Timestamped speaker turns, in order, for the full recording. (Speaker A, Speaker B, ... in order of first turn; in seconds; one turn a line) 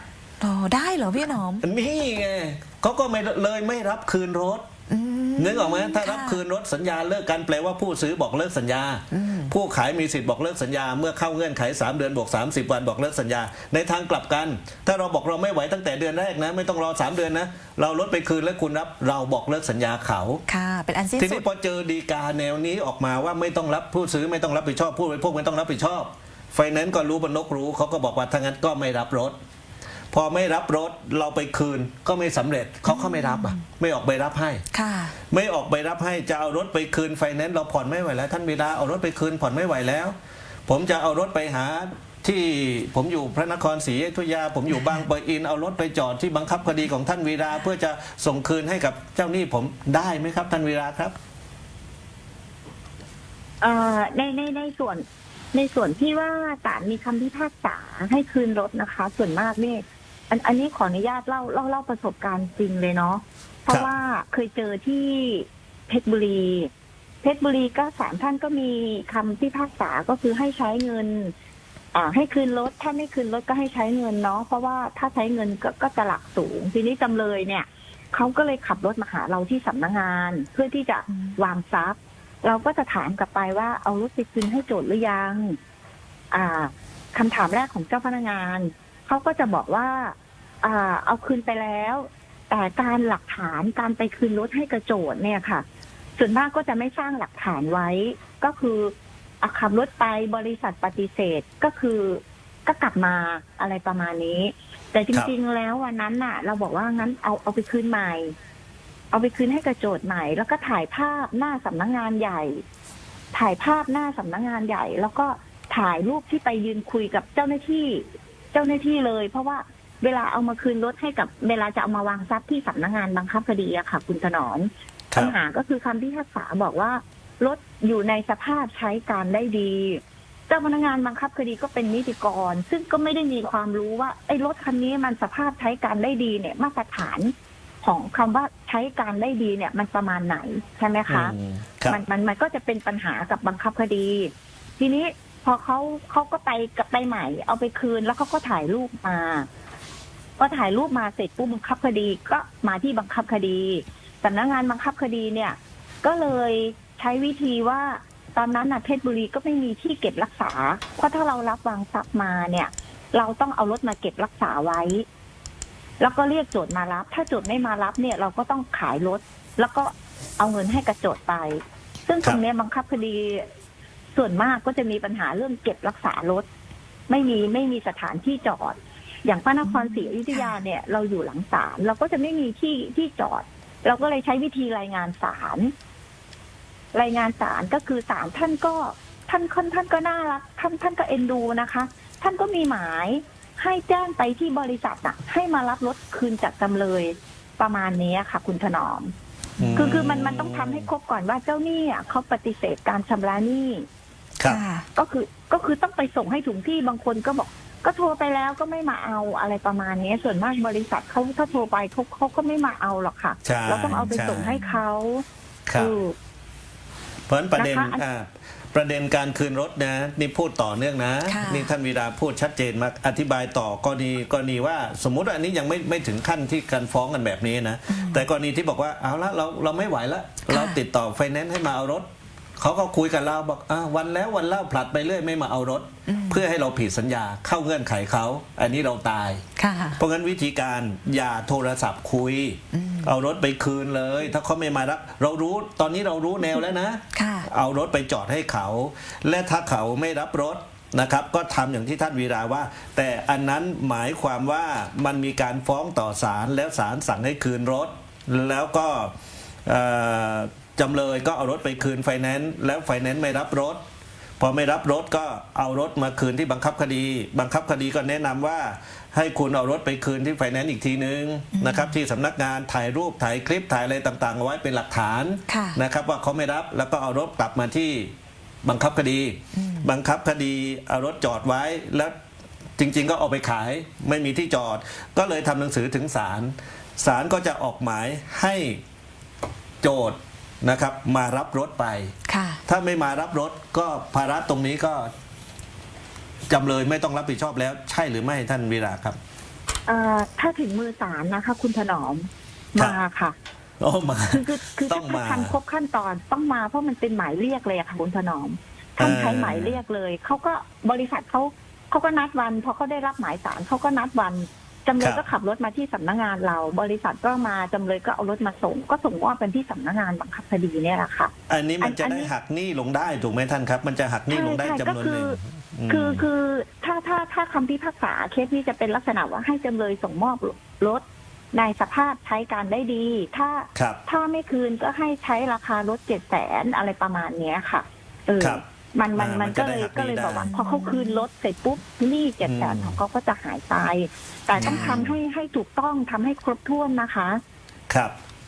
Speaker A: 0.4-1.6
Speaker B: 1.6-4.7
Speaker A: 4.9-6.4
Speaker B: 5.4-20.4
Speaker A: 9.1-9.5
Speaker A: 20.5-21.4
Speaker B: 21.2-29.4
Speaker B: 30.1-34.6
Speaker A: 32.9-33.6
Speaker A: 34.7-35.1
Speaker B: 35.3-40.1
Speaker B: 40.7-51.1
Speaker C: 53.6-66.7
Speaker C: 67.2-71.3
Speaker C: 71.9-85.6
Speaker A: 81.1-81.3
Speaker C: 86.3-95.6
Speaker C: 96.2-108.3
Speaker C: 109.1-112.6
Speaker C: 113.3-141.3
Speaker B: 141.1-142.0
Speaker C: 141.9-149.5
Speaker C: 150.4-165.1
Speaker C: 166.0-173.5
Speaker C: 174.1-176.4
Speaker C: 177.1-185.7
Speaker A: 179.6-180.5
Speaker C: 186.9-199.1
Speaker A: 199.6-200.0
Speaker B: 199.6-200.9
Speaker C: 199.8-203.9
Speaker A: 204.5-204.8
Speaker C: 204.9-215.2
Speaker B: 213.4-214.6
Speaker B: 215.7-215.9
Speaker C: 215.8-216.1
Speaker B: 217.3-239.4
Speaker C: 217.6-218.0
Speaker A: 221.3-221.7
Speaker A: 227.9-228.2
Speaker A: 230.5-230.8
Speaker A: 236.1-236.4
Speaker A: 239.6-240.0
Speaker B: 240.0-259.1
Speaker A: 242.7-243.1
Speaker A: 247.1-247.5
Speaker B: 259.6-263.8
Speaker B: 264.4-282.1
Speaker A: 271.5-271.9
Speaker A: 275.5-275.8
Speaker A: 279.5-279.9
Speaker B: 282.8-288.8
Speaker B: 289.8-292.1
Speaker A: 292.3-292.6
Speaker B: 292.7-295.1
Speaker B: 296.5-299.2
Speaker C: 299.9-303.3
Speaker B: 303.8-305.6
Speaker C: 304.3-322.3
Speaker B: 309.0-309.8
Speaker B: 315.0-315.2
Speaker B: 321.5-326.3
Speaker C: 324.3-325.4
Speaker C: 325.9-347.4
Speaker B: 333.7-334.0
Speaker B: 339.1-340.5
Speaker A: 340.5-341.2
Speaker B: 342.4-343.0
Speaker B: 344.5-345.1
Speaker A: 344.6-345.0
Speaker B: 347.9-348.1